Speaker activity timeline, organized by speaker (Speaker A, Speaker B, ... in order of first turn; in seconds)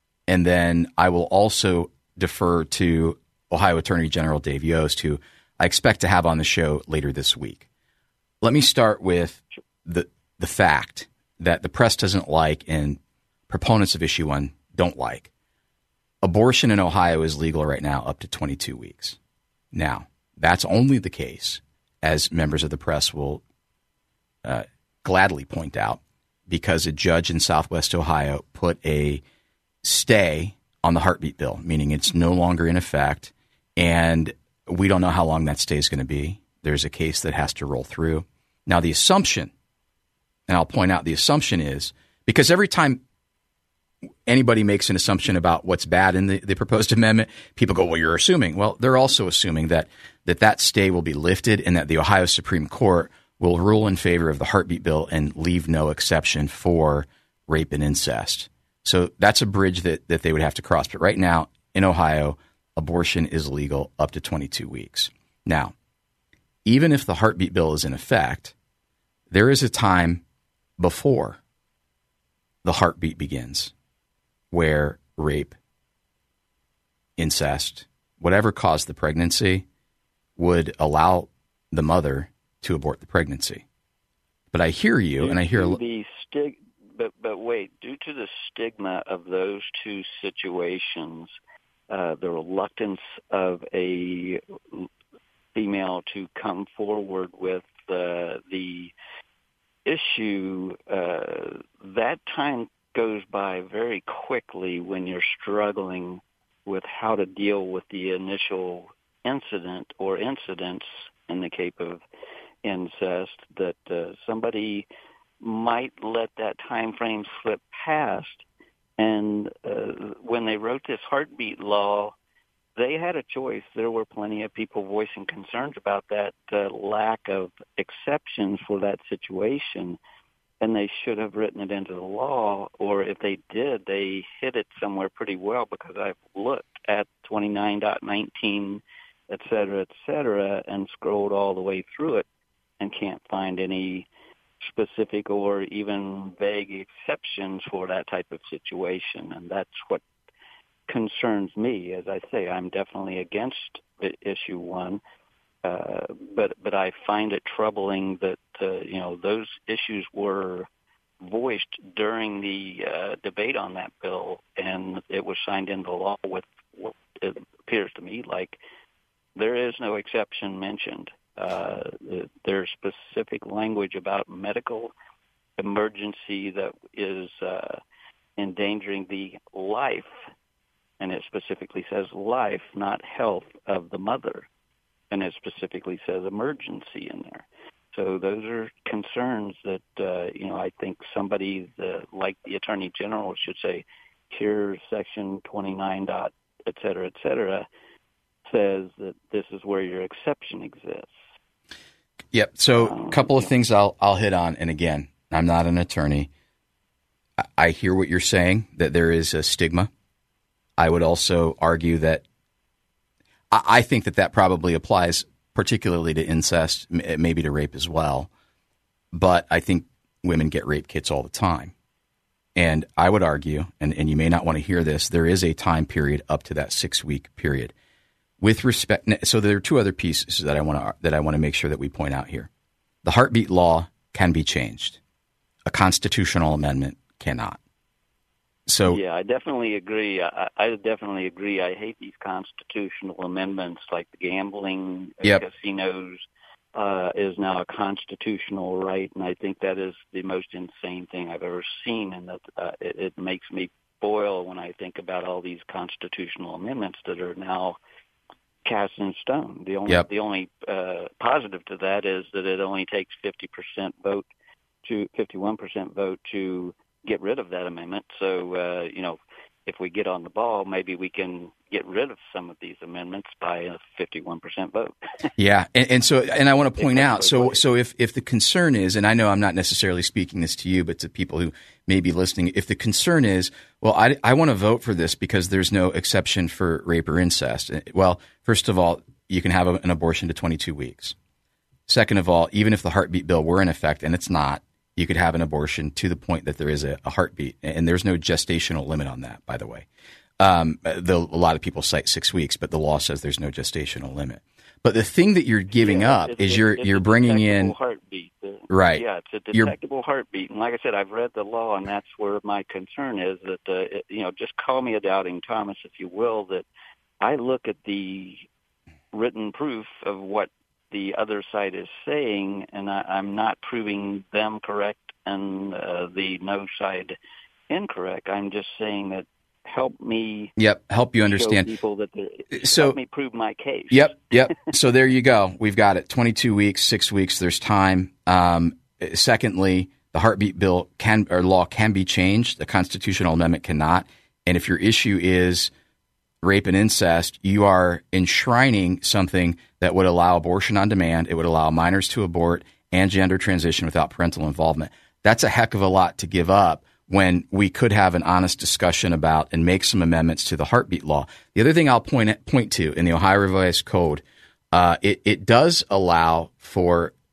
Speaker A: 0.3-7.7, 8.4-13.0, 13.5-15.3, 16.2-19.2, 19.7-23.4, 24.4-29.2, 29.8-39.5, 40.5-43.0, 44.3-65.7, 66.7-68.5, 69.3-70.2, 70.8-71.4, 72.6-73.7, 74.5-75.5, 77.2-79.7, 80.4-83.6, 84.5-85.8, 202.3-206.3, 207.6-209.9, 210.8-212.2, 213.5-218.3, 219.1-221.7, 222.6-227.7, 228.4-232.5, 233.0-235.0, 235.7-237.6, 238.7-239.0, 275.4-291.1, 291.9-299.9, 300.4-307.8, 308.7-309.7, 330.6-331.7, 333.9-345.7, 346.4-367.1
Speaker B: 85.2-91.3, 91.9-94.9, 95.5-98.9, 99.8-112.0, 112.6-114.9, 115.4-118.4, 119.0-122.1, 122.8-130.0, 130.6-142.2, 142.8-144.1, 144.6-150.0, 150.9-155.0, 155.6-160.7, 161.2-168.6, 169.3-174.9, 175.6-177.8, 178.4-180.1, 181.0-184.5, 185.1-197.7, 198.5-201.1, 202.8-203.5, 238.9-257.8, 258.6-264.2, 264.8-275.0, 276.8-277.6, 305.7-316.6, 317.2-318.4, 319.1-327.1, 327.7-330.5, 331.3-334.3